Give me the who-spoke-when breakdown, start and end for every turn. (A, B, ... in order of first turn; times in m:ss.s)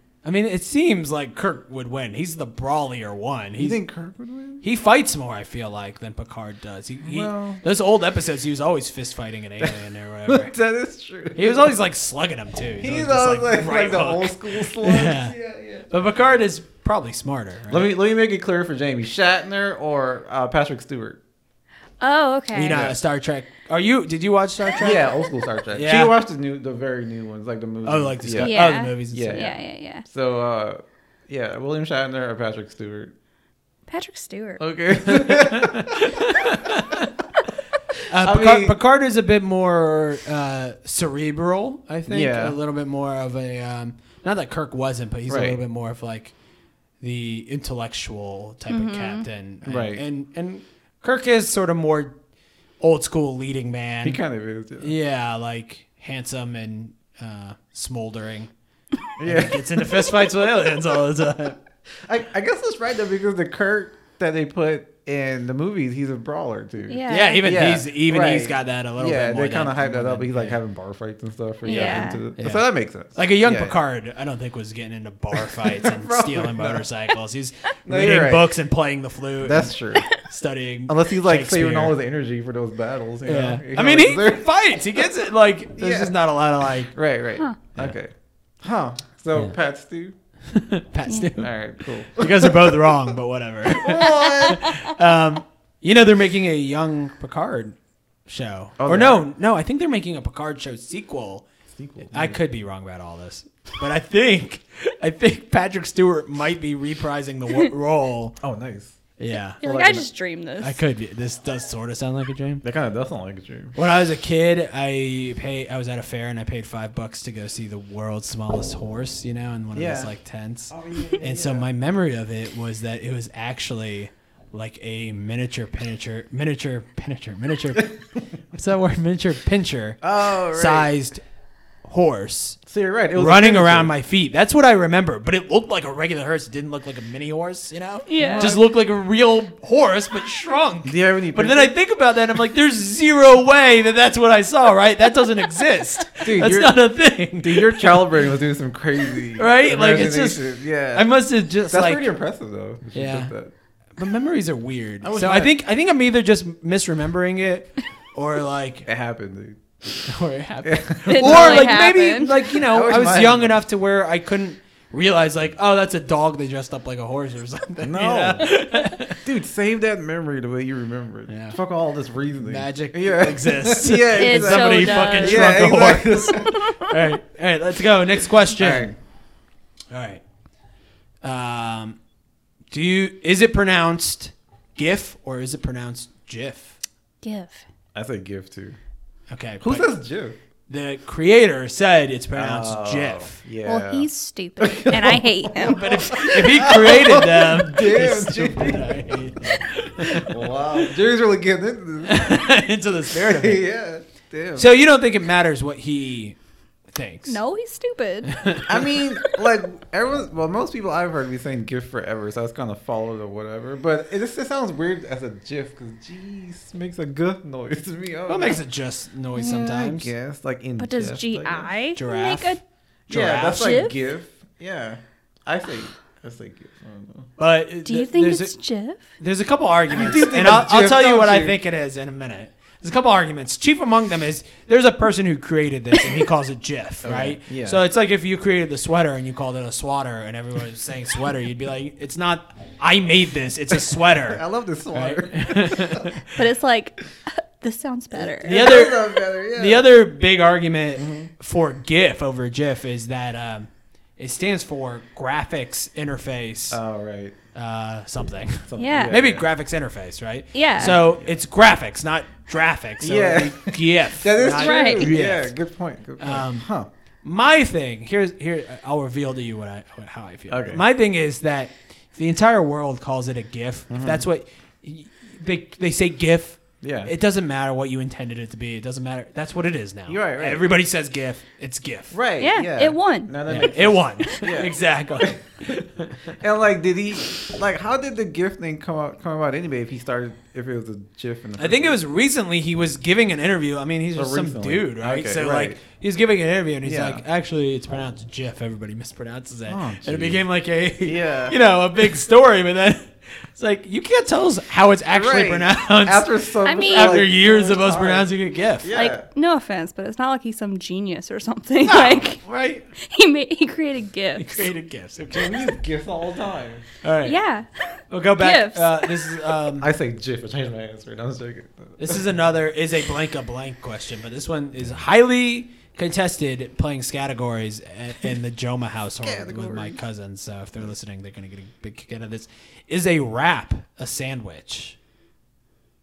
0:00.2-0:03.8 A
0:03.6-0:04.6 B
0:04.6-0:10.5 A
0:07.0-0:07.6 B
0:10.3-0:11.8 B
0:11.4-0:15.4 A
0:12.8-0:16.0 B
0:15.9-0:17.9 A
0:17.7-0:21.2 B
0:22.0-0:22.8 C
0:22.5-0:25.1 A
0:22.7-0:23.0 B
0:24.8-0:33.1 B
0:25.7-0:26.2 A
0:27.8-0:29.5 A
0:28.4-0:30.0 C
0:33.9-0:34.6 C
0:34.6-0:36.3 B
0:35.0-0:37.1 A
0:38.1-0:46.3 A
0:38.2-0:38.8 B
0:42.1-0:42.6 B
0:45.3-0:45.6 B
0:47.0-0:52.2 A
0:48.7-0:49.3 C
0:49.6-0:50.0 B
0:52.8-0:54.2 A
0:54.0-0:54.9 B
0:54.8-0:58.5 A
0:59.2-1:00.2 B
0:59.2-1:01.6 A
1:02.0-1:13.8 B
1:06.9-1:07.5 C
1:07.1-1:10.6 A
1:11.6-1:12.2 C
1:11.7-1:22.0 A
1:15.3-1:16.9 B
1:17.9-1:18.5 B
1:19.4-1:20.2 B
1:20.9-1:25.1 B
1:23.2-1:27.0 A
1:25.8-1:26.2 B
1:26.9-1:30.2 B
1:30.5-1:41.5 A
1:31.4-1:33.1 B
1:33.6-1:34.8 B
1:38.8-1:39.2 B
1:41.7-1:42.4 B
1:42.1-1:48.4 A
1:48.4-1:49.0 B
1:49.2-1:49.6 A
1:49.6-1:50.1 B
1:49.6-1:50.8 C
1:50.6-1:52.6 A
1:52.6-1:53.8 B
1:53.8-2:08.0 A
1:59.7-2:00.1 B
2:00.7-2:01.7 B
2:08.5-2:11.2 A
2:10.0-2:10.9 B
2:11.8-2:12.6 A
2:12.7-2:13.9 B
2:13.2-2:28.1 A
2:18.1-2:18.5 C
2:18.1-2:18.6 B
2:20.8-2:21.8 B
2:26.2-2:26.8 B
2:27.4-2:31.2 B
2:29.4-2:32.1 A
2:31.7-2:33.5 B
2:32.9-2:33.3 A
2:34.0-2:38.9 A
2:35.0-2:35.5 B
2:38.9-2:40.0 B
2:40.1-2:49.2 A
2:40.6-2:41.8 B
2:41.1-2:42.4 C
2:42.5-2:43.6 B
2:47.8-2:48.5 B
2:49.2-2:56.7 B
2:51.3-2:51.6 A
2:52.4-2:59.0 A
2:54.1-2:56.9 C
2:58.6-2:58.9 B
2:59.9-3:00.2 A
3:01.2-3:02.0 A
3:02.7-3:06.8 A
3:07.2-3:07.6 C
3:07.9-3:08.8 B
3:09.3-3:09.9 A
3:09.6-3:10.4 B
3:10.7-3:13.4 A
3:12.3-3:22.5 B
3:13.6-3:15.9 C
3:15.6-3:20.5 A
3:22.0-3:23.7 A
3:23.1-3:24.7 B
3:24.6-3:26.4 A
3:26.9-3:27.4 A
3:27.3-3:28.6 C
3:28.3-3:28.8 A
3:28.7-3:38.6 B
3:38.3-3:40.1 A
3:39.4-3:41.7 B
3:40.8-3:42.6 C
3:42.0-3:43.8 A
3:43.1-3:47.3 B
3:43.5-3:44.0 C
3:47.4-3:48.5 A
3:47.8-3:49.0 C
3:49.2-4:06.2 A
3:49.9-3:51.6 B
3:57.0-3:57.8 B
4:04.0-4:06.2 B
4:06.4-4:08.8 C
4:08.1-4:09.9 B
4:08.4-4:16.8 A
4:11.0-4:11.3 B
4:16.7-4:17.4 B
4:17.5-4:25.5 A
4:18.7-4:19.5 B
4:18.8-4:19.1 C
4:20.5-4:21.0 C
4:20.8-4:21.4 B
4:23.0-4:26.9 B
4:24.5-4:25.2 C
4:26.2-4:26.7 A
4:27.2-4:42.2 A
4:30.5-4:30.8 B
4:33.9-4:34.2 B
4:36.8-4:37.1 B
4:40.1-4:40.7 B
4:42.1-4:45.4 B
4:42.4-4:43.7 C
4:43.5-4:46.4 A
4:46.4-4:52.0 B
4:51.6-5:08.9 A
4:54.2-4:55.8 B
4:56.8-4:57.2 B
4:59.7-5:00.4 B
5:01.0-5:01.6 B
5:05.1-5:09.2 B
5:06.6-5:07.3 C
5:08.9-5:12.4 C
5:11.9-5:12.2 B
5:12.4-5:12.9 A
5:13.0-5:14.7 C
5:14.4-5:15.8 A
5:15.3-5:16.8 B
5:17.0-5:17.4 A
5:17.2-5:19.4 C
5:18.1-5:19.9 A
5:19.8-5:22.2 B
5:22.0-5:35.0 A
5:29.2-5:30.0 B